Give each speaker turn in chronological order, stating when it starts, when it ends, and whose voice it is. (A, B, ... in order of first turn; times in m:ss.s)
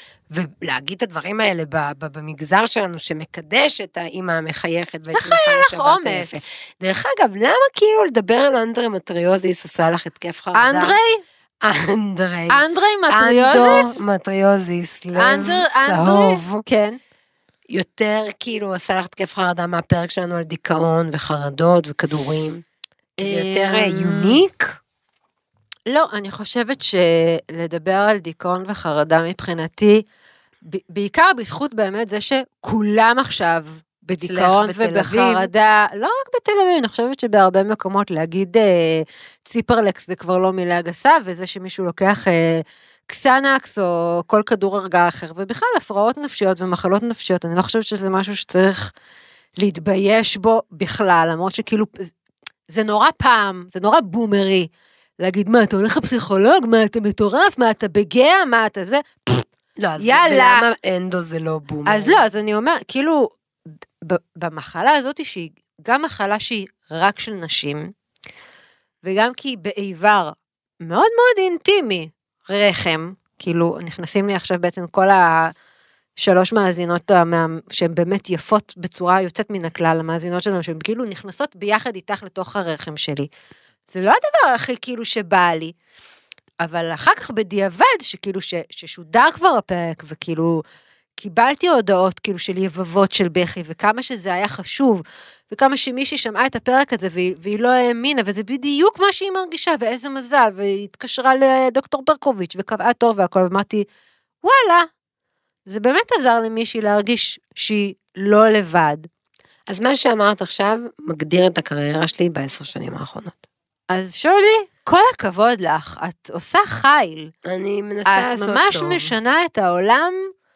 0:00.3-0:11.0 A
0:05.1-0:06.4 B
0:10.5-0:11.2 B
0:11.6-0:16.6 A
0:12.5-0:14.0 B
0:15.1-0:17.0 B
0:17.7-0:22.6 A
0:23.2-0:24.4 B
0:23.2-0:24.8 A
0:25.9-0:30.0 B
0:30.6-0:48.9 B
0:34.2-0:35.5 A
0:49.6-0:52.1 B
0:52.7-0:54.7 B
0:55.2-0:59.5 B
0:59.8-1:02.2 A
1:00.0-1:00.7 B
1:01.9-1:03.3 B
1:04.0-1:07.9 B
1:09.0-1:15.5 B
1:16.2-1:23.3 B
1:23.9-1:25.7 B
1:26.6-1:30.6 B
1:31.2-1:43.9 B
1:44.4-1:44.9 B
1:45.7-1:49.1 B
1:49.7-1:53.4 A
1:53.9-1:57.3 B
1:57.4-1:59.1 A
1:58.1-2:00.3 B